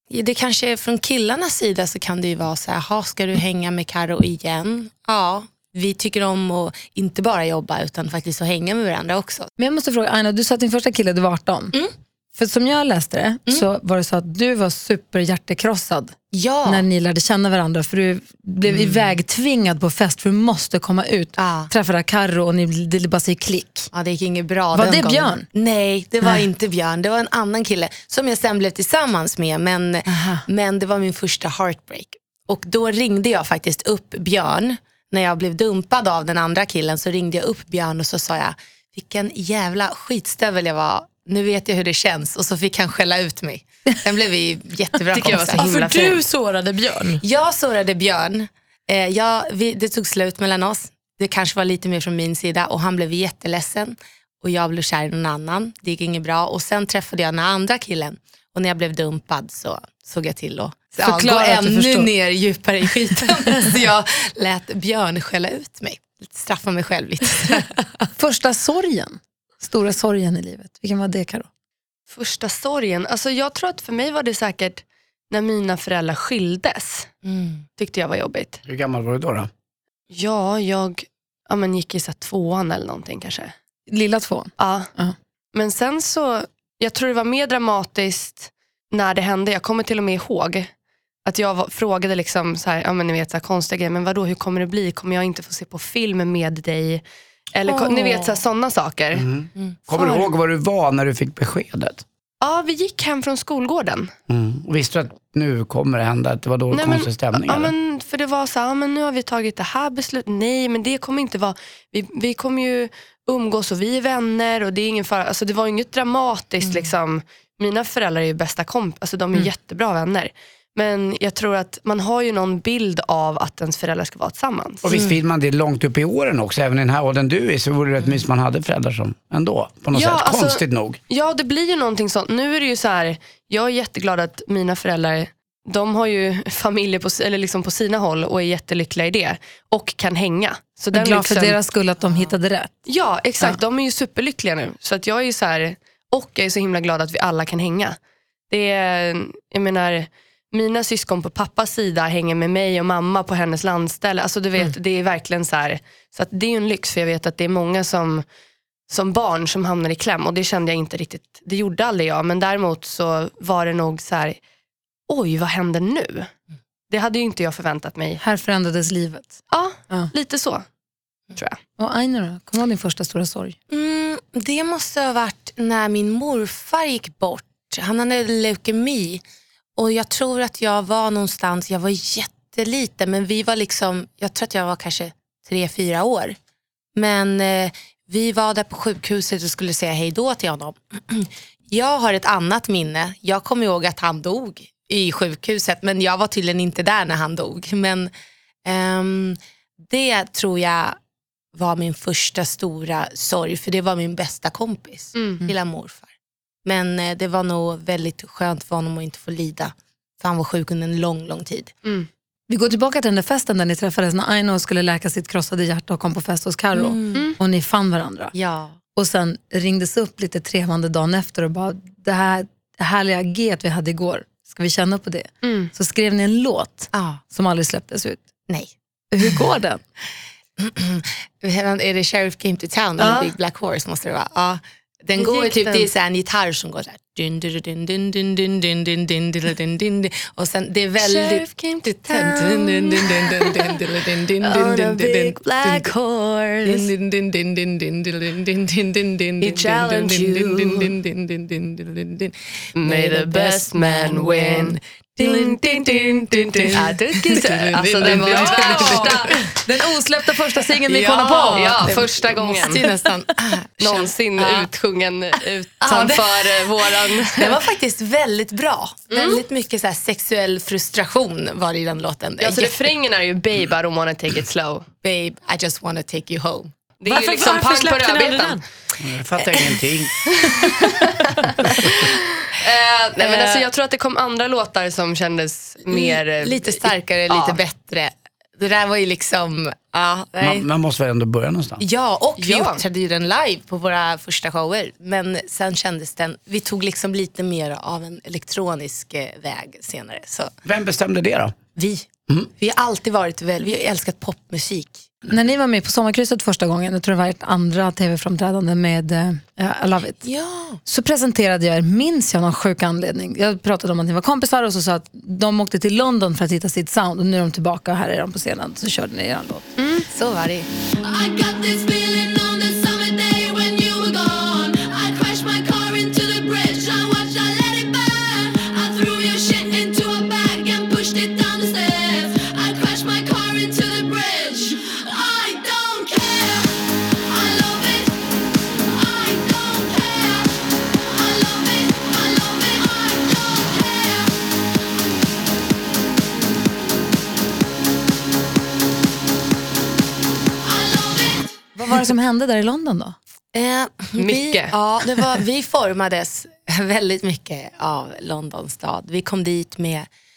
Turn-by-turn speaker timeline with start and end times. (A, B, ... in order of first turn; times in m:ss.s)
0:00.1-0:09.5 A
0:09.6-0:11.7 B
0:12.3-0:23.9 B
0:16.3-0:16.8 A
0:18.6-0:19.2 A
0:21.4-0:21.7 A
0:23.9-0:45.8 A
0:24.7-0:25.4 B
0:30.1-0:30.4 B
0:45.1-0:46.2 C
0:45.2-0:47.2 D
0:47.2-1:07.7 A
1:01.0-1:02.1 B
1:08.2-1:11.5 B
1:12.1-1:17.1 C
1:17.2-1:17.6 A
1:17.8-1:18.6 C
1:18.6-1:19.5 E
1:20.1-1:23.5 C
1:23.9-1:25.1 B
1:24.6-1:24.9 C
1:25.5-1:30.7 C
1:31.2-1:39.2 C
1:37.6-1:38.4 A
1:39.1-1:42.0 E
1:39.9-1:40.3 C
1:42.4-1:44.1 C
1:44.3-1:47.7 E
1:46.7-2:04.9 C
1:56.6-1:56.9 A
2:04.8-2:11.0 E
2:04.9-2:05.2 A
2:09.9-2:21.6 C
2:20.9-2:22.7 B
2:22.8-2:28.0 C
2:28.5-2:38.2 C
2:38.9-2:44.4 C
2:45.1-2:46.3 C
2:46.9-2:48.2 C
2:48.2-2:49.4 B
2:49.5-2:50.6 C
2:51.8-2:53.6 B
2:53.7-2:59.2 A
2:59.8-3:06.4 A
3:07.0-3:18.1 A
3:18.6-3:21.0 A
3:21.5-3:26.1 A
3:25.2-3:25.4 C
3:26.6-3:31.7 A
3:32.5-3:38.3 B
3:36.7-3:37.3 A
3:38.3-3:38.8 A
3:38.9-3:48.2 B
3:45.4-3:45.7 C
3:46.9-3:47.2 A
3:48.5-3:49.4 A
3:49.1-3:49.8 B
3:50.6-4:19.3 A
3:53.0-3:53.3 C
3:55.2-3:55.9 C
4:01.0-4:03.8 C
4:04.4-4:05.9 C
4:06.6-4:06.9 C
4:09.4-4:10.9 C
4:12.7-4:19.4 C
4:17.3-4:19.4 D
4:18.3-4:18.7 B
4:19.3-4:22.0 B
4:20.8-4:24.7 A
4:21.4-4:22.9 C
4:23.8-4:27.6 C
4:25.8-4:32.9 A
4:29.1-4:29.4 C
4:32.4-4:34.8 C
4:35.0-4:36.7 A
4:37.0-4:38.6 C
4:37.1-4:38.6 D
4:39.0-4:40.1 E
4:40.5-4:41.2 C
4:41.8-4:47.6 C
4:43.2-4:43.7 A
4:45.9-4:50.6 A
4:50.4-4:51.8 E
4:51.8-5:00.5 A
4:52.4-4:52.8 C
5:00.6-5:01.6 E
5:01.7-5:05.1 A
5:05.3-5:10.2 B
5:10.2-5:10.8 A
5:10.8-5:19.7 B
5:19.8-5:20.0 C
5:20.1-5:20.7 A
5:21.0-5:44.4 F
5:50.6-5:51.5 F
5:51.7-5:53.2 B
5:53.5-6:00.1 A
5:54.2-5:55.4 C